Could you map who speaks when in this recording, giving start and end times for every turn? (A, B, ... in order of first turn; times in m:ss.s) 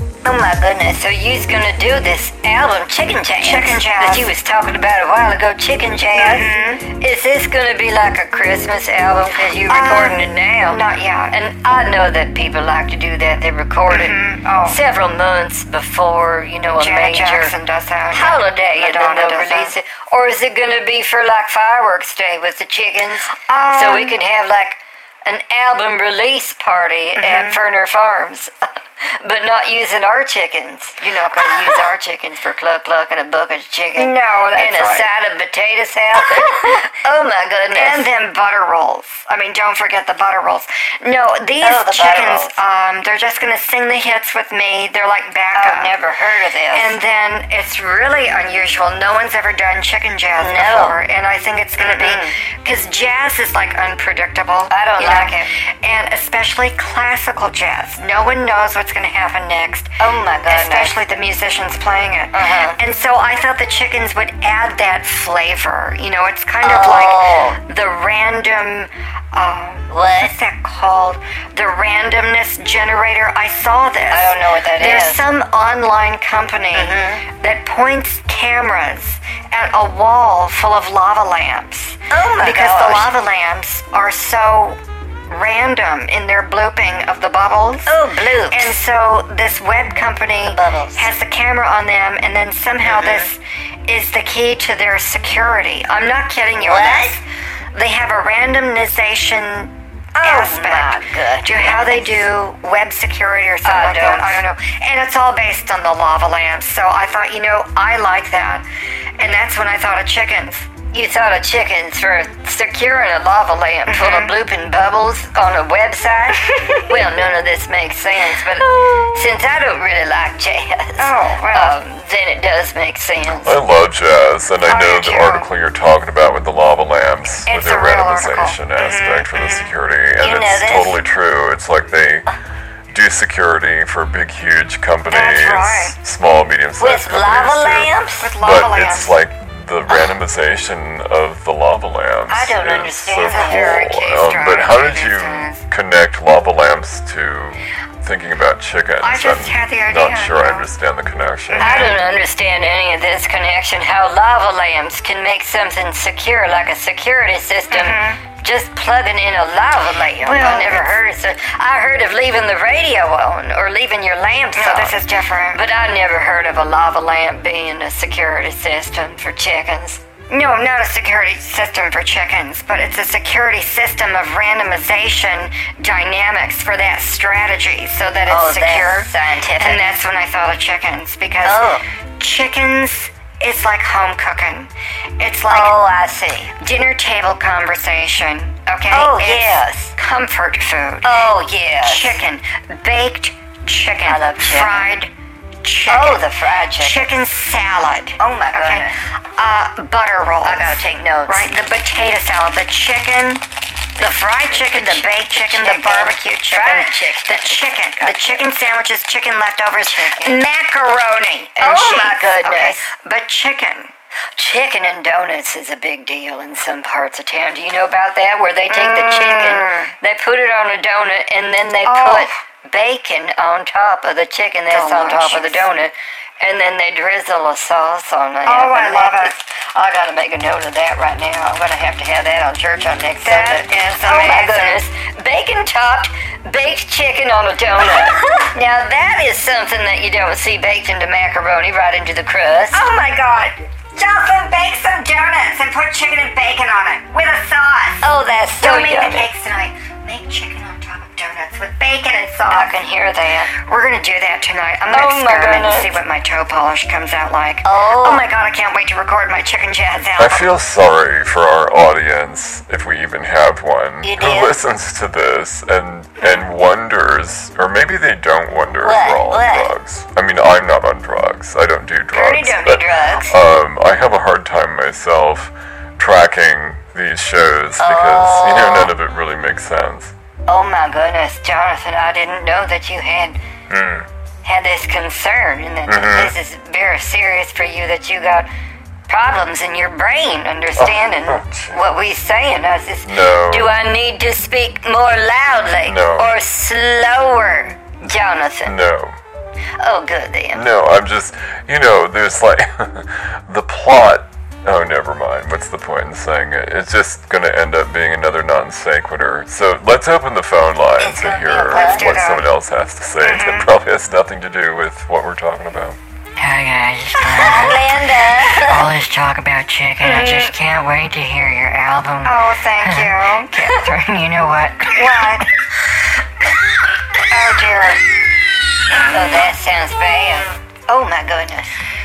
0:00.2-0:17.5 A
0:03.4-0:04.3 B
0:06.2-0:06.9 B
0:09.5-0:11.4 B
0:13.9-0:14.8 B
0:16.8-0:19.8 B
0:18.1-0:38.1 A
0:23.3-0:24.2 B
0:27.2-0:27.6 B
0:31.0-0:31.9 B
0:34.0-0:35.1 B
0:37.7-0:46.0 B
0:41.6-0:42.5 A
0:45.6-0:47.0 A
0:46.7-1:00.0 B
0:50.4-0:51.0 A
0:51.8-0:52.4 A
0:54.7-0:55.5 A
1:00.0-1:00.9 A
1:00.5-1:48.7 B
1:02.3-1:02.8 A
1:06.6-1:07.6 A
1:09.9-1:10.3 A
1:14.1-1:15.2 A
1:16.7-1:17.3 A
1:22.1-1:23.1 A
1:27.9-1:28.8 A
1:30.4-1:31.1 A
1:32.9-1:33.3 A
1:36.6-1:37.2 A
1:40.2-1:42.3 A
1:43.6-1:44.4 A
1:49.2-1:50.7 B
1:50.9-2:03.6 A
1:53.9-1:54.4 B
1:56.5-1:56.9 B
2:01.0-2:01.8 B
2:03.4-2:12.3 C
2:04.6-2:05.5 B
2:07.4-2:09.7 B
2:10.2-2:11.0 A
2:12.9-2:31.8 C
2:15.1-2:16.0 B
2:16.8-2:18.4 A
2:18.2-2:19.2 B
2:19.9-2:20.2 A
2:22.3-2:23.9 A
2:23.2-2:25.6 B
2:29.0-2:30.7 B
2:31.5-2:32.0 B
2:31.6-2:45.0 A
2:37.7-2:38.2 B
2:40.2-2:41.0 B
2:44.5-2:45.6 B
2:45.5-2:50.0 A
2:50.3-3:05.8 B
2:58.3-2:59.8 A
3:01.4-3:01.8 A
3:05.5-3:06.6 A
3:06.6-3:15.1 B
3:08.9-3:10.0 A
3:11.0-3:12.2 A
3:14.1-3:14.9 A
3:15.6-3:23.4 B
3:15.9-3:17.1 A
3:18.2-3:19.0 A
3:20.4-3:21.5 A
3:24.0-3:28.5 A
3:24.0-3:33.9 B
3:29.8-3:30.4 A
3:31.6-3:32.8 A
3:34.4-4:02.8 A
3:38.7-3:39.9 B
3:41.8-3:42.4 B
3:44.7-3:45.7 B
3:48.4-3:49.4 B
3:53.2-3:54.8 B
4:02.7-4:12.8 B
4:08.0-4:09.3 A
4:12.5-4:13.5 A
4:13.4-4:20.6 B
4:14.9-4:16.0 A
4:17.6-4:18.2 A
4:20.2-4:40.1 C
4:24.0-4:24.6 A
4:28.8-4:29.8 A
4:32.1-4:33.4 A
4:37.8-4:38.9 A
4:40.5-4:43.4 A
4:43.7-4:44.1 C
4:44.4-4:48.5 A
4:45.9-4:46.4 C
4:49.1-4:58.8 A
4:50.8-4:51.8 C
4:53.0-4:53.8 C
4:55.8-4:56.4 C
4:58.6-4:59.2 C
4:59.8-5:00.7 A
5:00.5-5:16.0 C
5:11.0-5:12.5 B
5:11.4-5:12.1 A
5:13.2-5:13.7 B
5:16.4-5:25.0 D
5:17.2-5:18.9 A
5:20.0-5:20.5 B
5:22.2-5:23.7 B
5:24.9-5:25.5 B
5:27.2-5:28.1 B
5:28.9-5:29.5 B
5:29.0-5:31.8 A